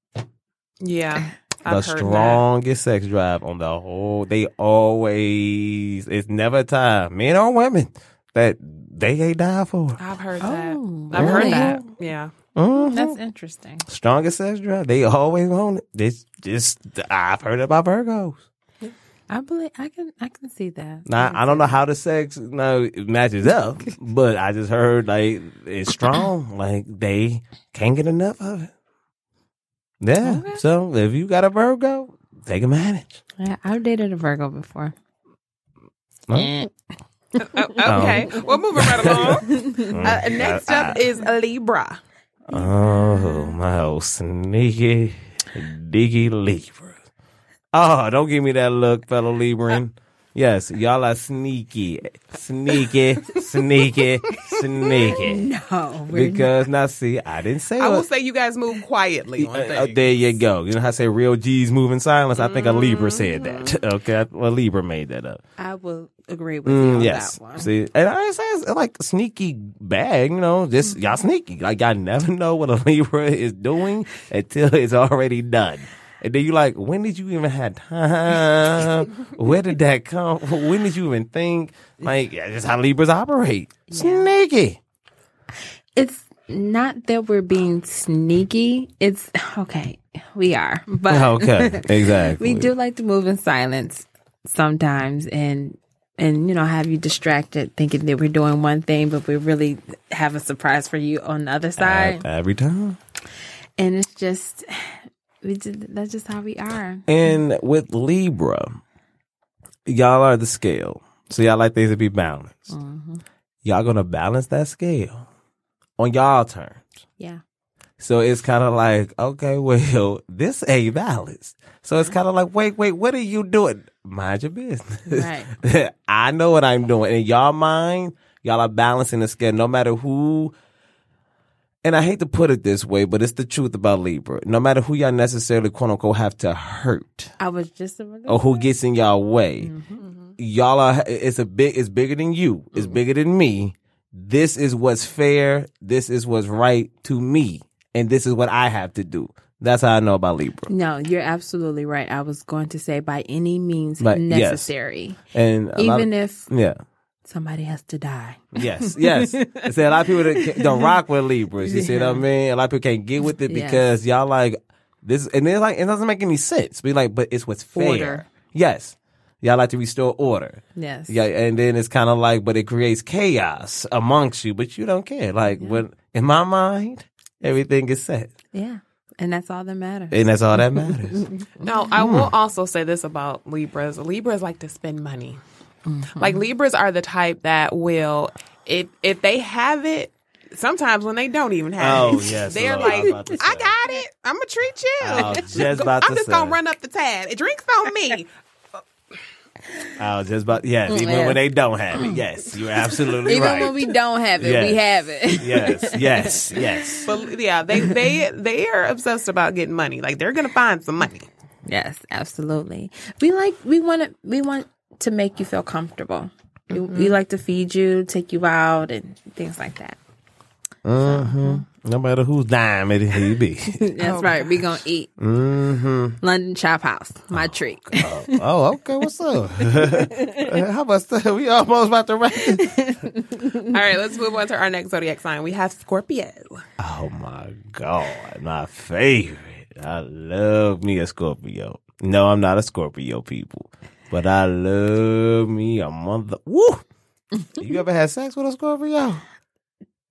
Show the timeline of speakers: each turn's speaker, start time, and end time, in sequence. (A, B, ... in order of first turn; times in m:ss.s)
0:00.8-0:02.4 A
0:01.7-0:10.0 B
0:10.0-0:12.3 A
0:10.4-0:11.8 C
0:11.1-0:11.8 B
0:12.5-0:13.2 B
0:12.7-0:13.9 C
0:13.9-0:18.4 B
0:19.3-0:21.8 C
0:21.0-0:28.7 B
0:30.0-0:33.2 B
0:30.2-0:30.6 C
0:33.4-0:34.9 C
0:36.3-0:36.7 C
0:37.3-0:40.0 C
0:37.5-0:42.0 A
0:37.8-0:41.0 B
0:42.5-0:47.0 B
0:42.6-0:43.5 C
0:47.7-0:55.4 B
0:55.1-0:56.5 C
0:56.1-0:58.0 B
0:57.8-1:00.4 A
0:59.4-1:05.4 B
1:02.4-1:03.8 A
1:05.6-1:07.7 C
1:06.6-1:24.8 B
1:23.9-1:24.3 C
1:26.0-1:42.2 C
1:31.1-1:32.7 B
1:41.8-1:43.0 B
1:43.8-1:47.1 C
1:47.1-1:48.8 B
1:49.8-1:52.7 B
1:52.7-1:53.2 C
1:53.6-1:55.2 B
1:56.0-1:56.9 B
1:58.0-2:10.5 B
2:05.1-2:05.5 C
2:11.8-2:17.3 B
2:17.4-2:18.6 C
2:18.3-2:19.7 B
2:19.6-2:20.0 C
2:20.0-2:20.3 A
2:20.4-2:30.7 B
2:30.7-2:35.2 C
2:34.0-2:34.7 B
2:35.3-2:36.8 B
2:35.8-2:36.5 C
2:37.2-2:40.9 C
2:38.5-2:58.3 B
2:41.6-2:42.2 C
2:43.4-2:43.8 C
2:47.7-2:48.3 C
2:50.7-2:51.2 C
2:55.6-2:55.8 C
2:58.5-3:01.7 C
3:00.1-3:01.2 B
3:01.6-3:05.4 A
3:02.0-3:02.3 B
3:05.8-3:06.4 C
3:06.2-3:18.3 A
3:11.8-3:13.7 B
3:12.8-3:13.4 C
3:15.0-3:16.6 B
3:15.1-3:15.4 C
3:20.0-3:23.8 B
3:20.9-3:21.4 C
3:21.9-3:22.2 C
3:23.2-3:27.1 C
3:24.4-3:27.1 B
3:27.0-3:31.3 A
3:31.6-3:40.0 C
3:36.7-3:37.2 A
3:40.8-3:43.8 B
3:41.0-3:41.6 C
3:43.7-3:45.1 C
3:44.0-3:44.6 A
3:45.2-3:46.2 B
3:46.2-3:48.4 C
3:47.3-3:52.7 B
3:49.6-3:50.6 C
3:52.4-3:53.8 C
3:53.7-3:56.6 A
3:56.8-4:06.8 B
4:07.5-4:09.2 B